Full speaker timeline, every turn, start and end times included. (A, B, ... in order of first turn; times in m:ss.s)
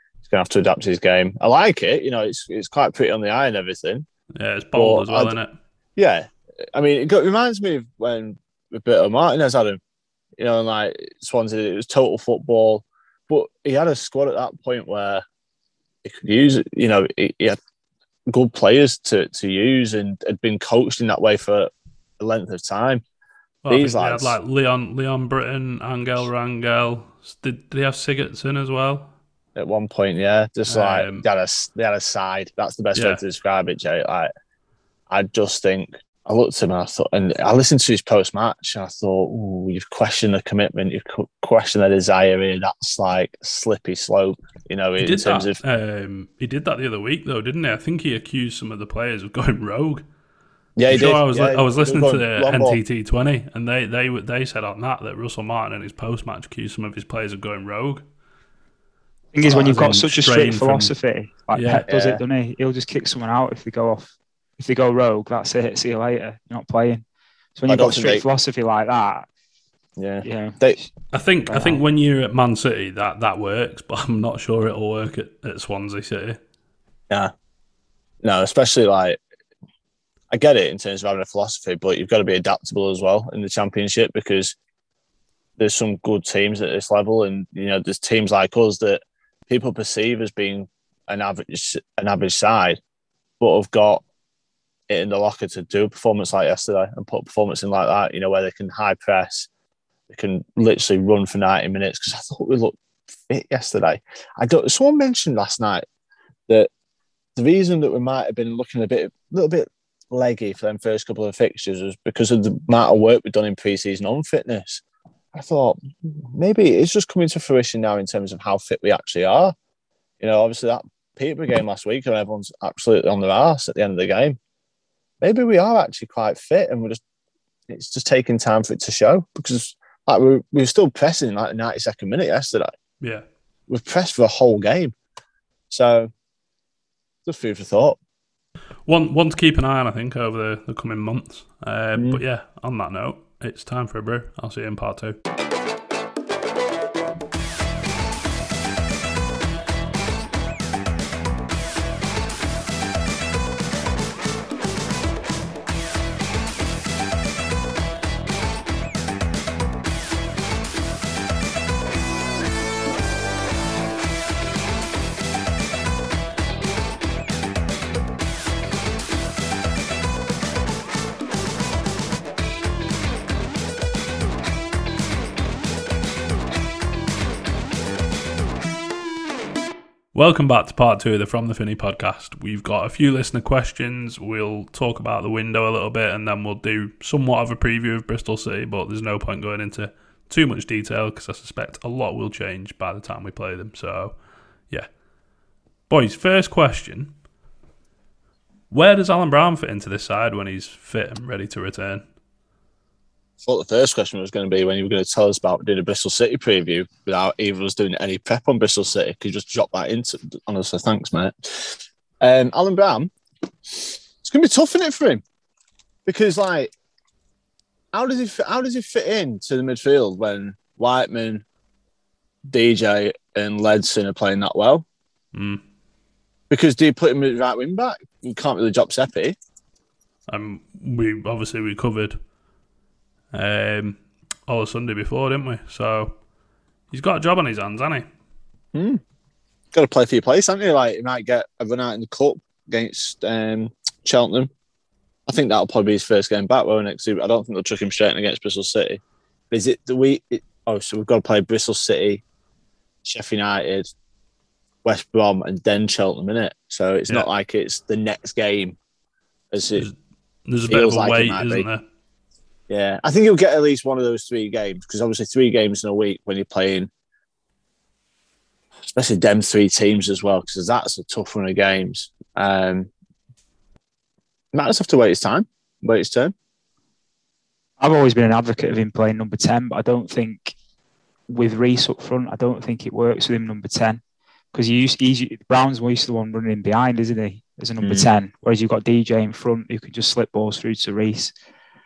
0:00.2-0:04.0 A
0:04.3-0:05.5 B
0:04.7-0:05.3 A
0:06.0-0:09.8 A
0:10.4-0:15.2 A
0:16.0-0:17.6 A
0:18.3-0:23.0 A
0:23.6-0:29.1 B
0:23.7-0:24.4 A
0:29.6-0:34.3 A
0:30.7-0:31.2 B
0:32.9-0:33.2 B
0:35.1-0:45.6 A
0:45.0-0:50.0 B
0:50.8-0:52.8 A
0:50.9-0:58.0 B
0:59.3-1:07.0 C
0:59.5-1:00.9 B
1:01.5-1:01.9 B
1:01.9-1:02.2 A
1:07.6-1:09.3 C
1:07.7-1:08.2 A
1:10.0-1:10.8 A
1:10.2-1:10.9 C
1:11.1-1:16.4 B
1:11.5-1:11.8 C
1:18.2-1:19.2 A
1:20.3-1:24.6 A
1:25.6-1:32.8 A
1:33.4-1:34.0 A
1:34.9-1:39.5 A
1:40.1-1:45.8 A
1:47.4-1:54.8 A
1:55.3-1:59.5 A
2:00.2-2:04.4 A
2:05.2-2:07.0 A
2:07.7-2:12.7 A
2:13.7-2:14.9 A
2:15.7-2:16.1 A
2:17.2-2:18.0 A
2:18.8-2:25.2 B
2:22.0-2:22.2 A
3:00.1-3:14.2 B
3:15.9-3:17.1 B
3:18.7-3:22.0 B
3:23.4-3:33.1 A
3:33.7-3:35.2 A
3:36.0-3:36.7 A
3:37.9-3:41.4 A
3:42.5-3:44.8 A
3:45.3-3:45.6 B
3:46.5-3:49.4 A
3:50.3-3:52.2 B
3:53.3-3:56.1 B
3:56.9-3:58.0 B
3:58.7-3:59.0 A
3:59.7-4:04.5 A
4:05.3-4:12.2 A
4:13.0-4:13.9 A
4:14.8-4:18.8 A
4:19.5-4:19.9 A
4:20.4-4:21.8 B
4:20.7-4:21.6 A
4:22.7-4:26.9 A
4:28.9-4:32.9 A
4:34.5-4:36.3 A
4:37.8-4:40.5 C
4:41.3-4:44.0 C
4:44.5-4:51.3 C
4:47.8-4:48.1 A